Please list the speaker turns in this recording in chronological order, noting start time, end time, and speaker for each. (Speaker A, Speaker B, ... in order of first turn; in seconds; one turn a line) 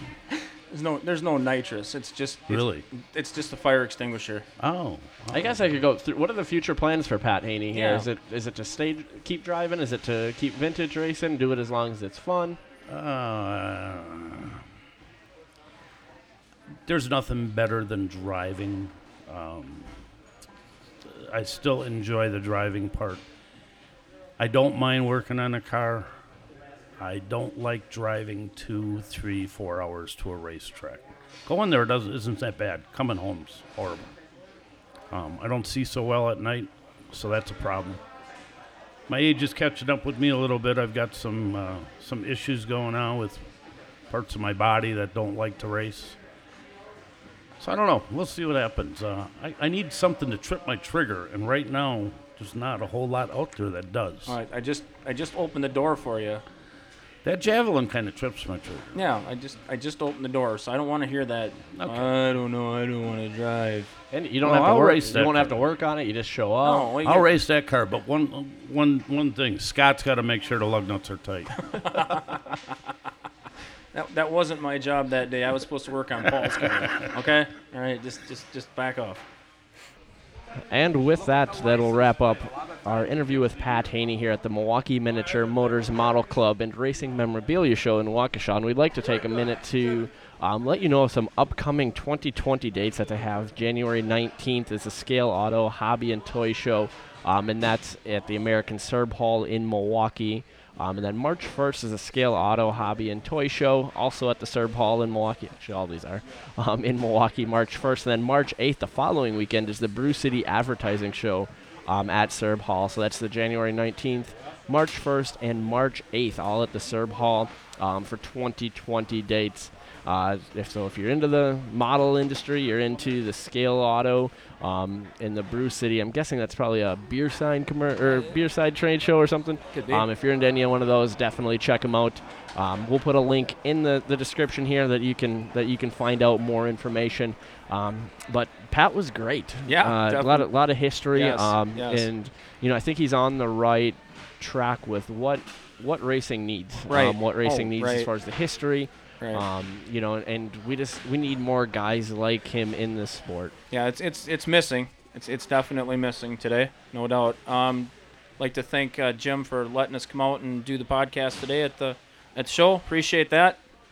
Speaker A: 0.7-4.5
Speaker B: 2.5-2.9
Speaker B: 4.6-5.7
Speaker C: 5.3-12.6
Speaker A: 7.7-8.1
Speaker B: 12.9-14.6
Speaker B: 16.9-20.0
Speaker B: 21.0-23.2
Speaker B: 24.4-26.1
Speaker B: 27.0-34.1
Speaker B: 35.1-38.0
Speaker B: 39.1-43.4
Speaker B: 44.1-46.2
Speaker B: 47.6-54.4
Speaker A: 54.3-56.4
Speaker B: 57.2-59.0
Speaker A: 58.9-63.9
Speaker B: 61.6-62.1
Speaker C: 64.1-66.9
Speaker B: 64.4-65.6
Speaker A: 66.6-67.3
Speaker B: 67.0-71.9
Speaker A: 71.8-72.6
Speaker A: 73.9-79.2
Speaker B: 76.4-77.1
Speaker C: 80.7-153.5
Speaker A: 129.7-130.1
Speaker A: 139.7-140.5
Speaker A: 141.1-142.1
Speaker A: 146.9-148.1
Speaker A: 153.7-163.6